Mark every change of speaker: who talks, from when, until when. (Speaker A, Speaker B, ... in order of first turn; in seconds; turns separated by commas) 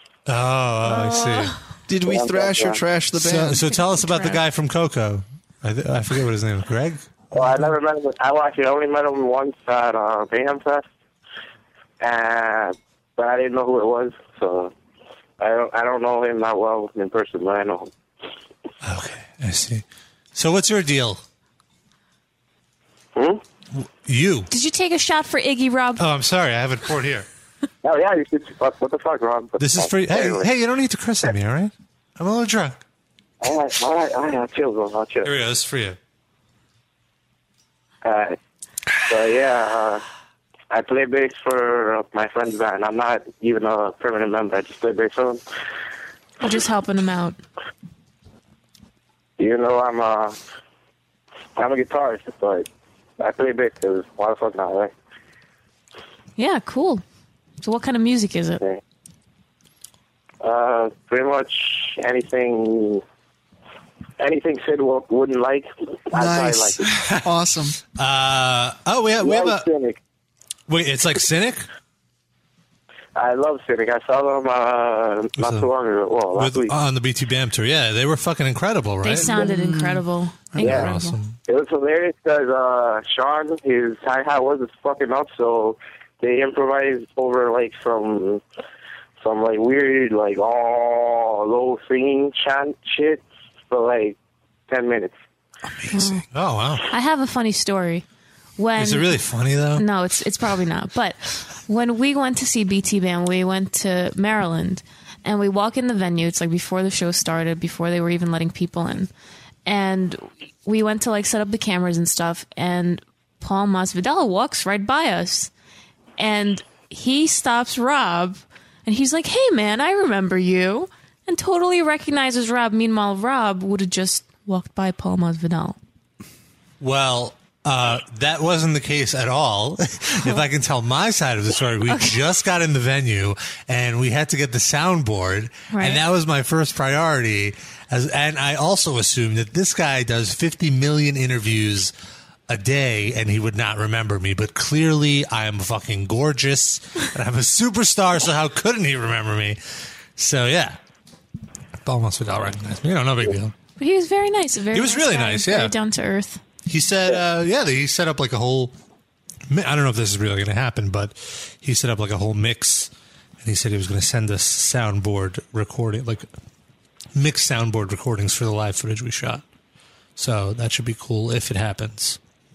Speaker A: 0.3-1.6, Speaker B: 0.9-1.6, Speaker C: 1.9-3.6, Speaker D: 2.0-2.8, Speaker A: 3.1-7.1, Speaker B: 3.9-4.4, Speaker D: 7.3-10.9, Speaker D: 12.0-14.7, Speaker D: 15.4-17.9, Speaker A: 18.8-21.2, Speaker D: 23.1-23.4, Speaker A: 23.7-24.5, Speaker B: 24.5-26.0, Speaker A: 26.0-27.3, Speaker D: 27.8-30.5, Speaker A: 29.6-32.8, Speaker D: 33.4-35.3, Speaker A: 35.2-36.0, Speaker D: 38.0-38.4, Speaker D: 39.0-40.0, Speaker D: 40.7-45.4, Speaker B: 46.4-47.4, Speaker D: 49.4-50.4, Speaker D: 51.6-52.7, Speaker D: 53.2-54.9, Speaker B: 56.4-57.0, Speaker B: 57.6-58.6, Speaker D: 60.4-63.0, Speaker D: 64.2-66.8, Speaker C: 66.1-67.8, Speaker A: 66.8-67.2, Speaker A: 67.9-69.7, Speaker D: 69.2-70.0, Speaker A: 70.7-71.7, Speaker D: 73.2-76.7, Speaker A: 75.4-75.7, Speaker A: 76.3-79.4, Speaker B: 79.0-81.2, Speaker C: 79.2-80.8, Speaker A: 80.6-81.4, Speaker D: 81.5-88.4, Speaker D: 89.2-94.2, Speaker D: 94.7-95.2, Speaker A: 95.8-96.8, Speaker B: 95.9-96.3, Speaker B: 96.8-98.0, Speaker B: 98.6-99.2, Speaker A: 98.8-99.8, Speaker B: 99.8-109.1, Speaker B: 109.7-115.5, Speaker B: 116.2-125.8, Speaker A: 126.8-141.9, Speaker B: 135.7-136.0, Speaker A: 142.5-149.6, Speaker A: 150.2-150.8, Speaker A: 151.8-153.6, Speaker B: 153.8-156.4, Speaker A: 154.7-155.7, Speaker A: 156.7-158.8, Speaker A: 159.5-166.3, Speaker A: 167.2-169.4, Speaker A: 170.2-172.2